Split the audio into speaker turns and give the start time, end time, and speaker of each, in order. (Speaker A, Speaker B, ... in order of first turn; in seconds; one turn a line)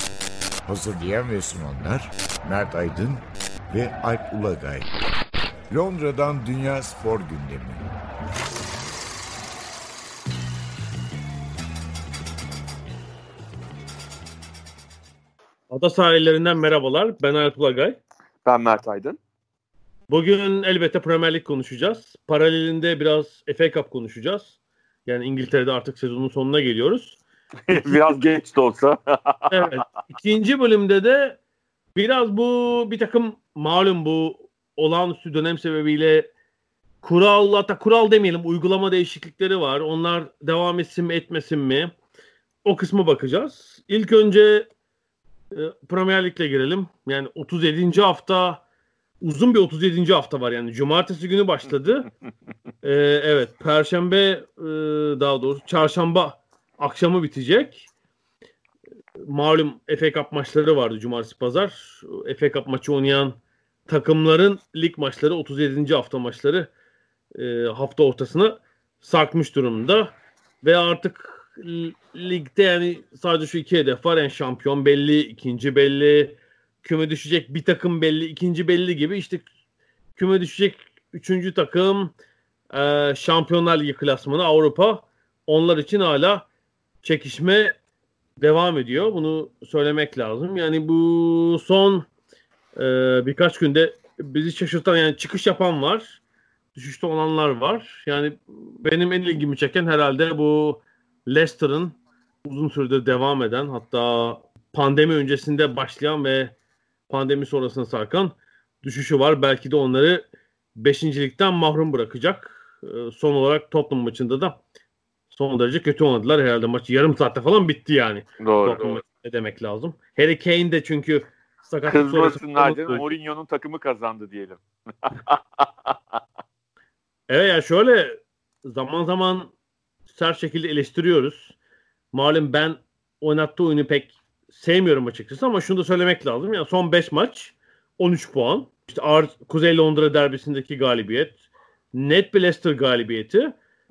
Speaker A: 0.6-4.9
Speaker A: 5.7-7.8
Speaker B: 15.7-18.0
Speaker C: 18.4-19.2
Speaker B: 20.1-24.5
Speaker B: 25.1-27.2
Speaker B: 27.7-28.2
Speaker C: 27.7-29.9
Speaker B: 29.5-31.4
Speaker B: 31.9-36.3
Speaker B: 37.0-41.9
Speaker B: 42.6-44.7
Speaker B: 45.5-48.6
Speaker B: 49.2-52.1
Speaker B: 52.8-57.9
Speaker B: 59.2-66.7
Speaker B: 67.3-79.5
Speaker B: 80.1-82.1
Speaker B: 82.7-86.5
Speaker B: 87.0-87.7
Speaker B: 88.4-92.1
Speaker B: 92.7-96.2
Speaker B: 96.7-106.5
Speaker B: 107.1-114.6
Speaker B: 115.3-123.1
Speaker C: 118.4-119.0
Speaker C: 121.8-126.2
Speaker B: 127.3-129.5
Speaker B: 130.1-131.5
Speaker B: 132.1-141.4
Speaker B: 141.9-143.5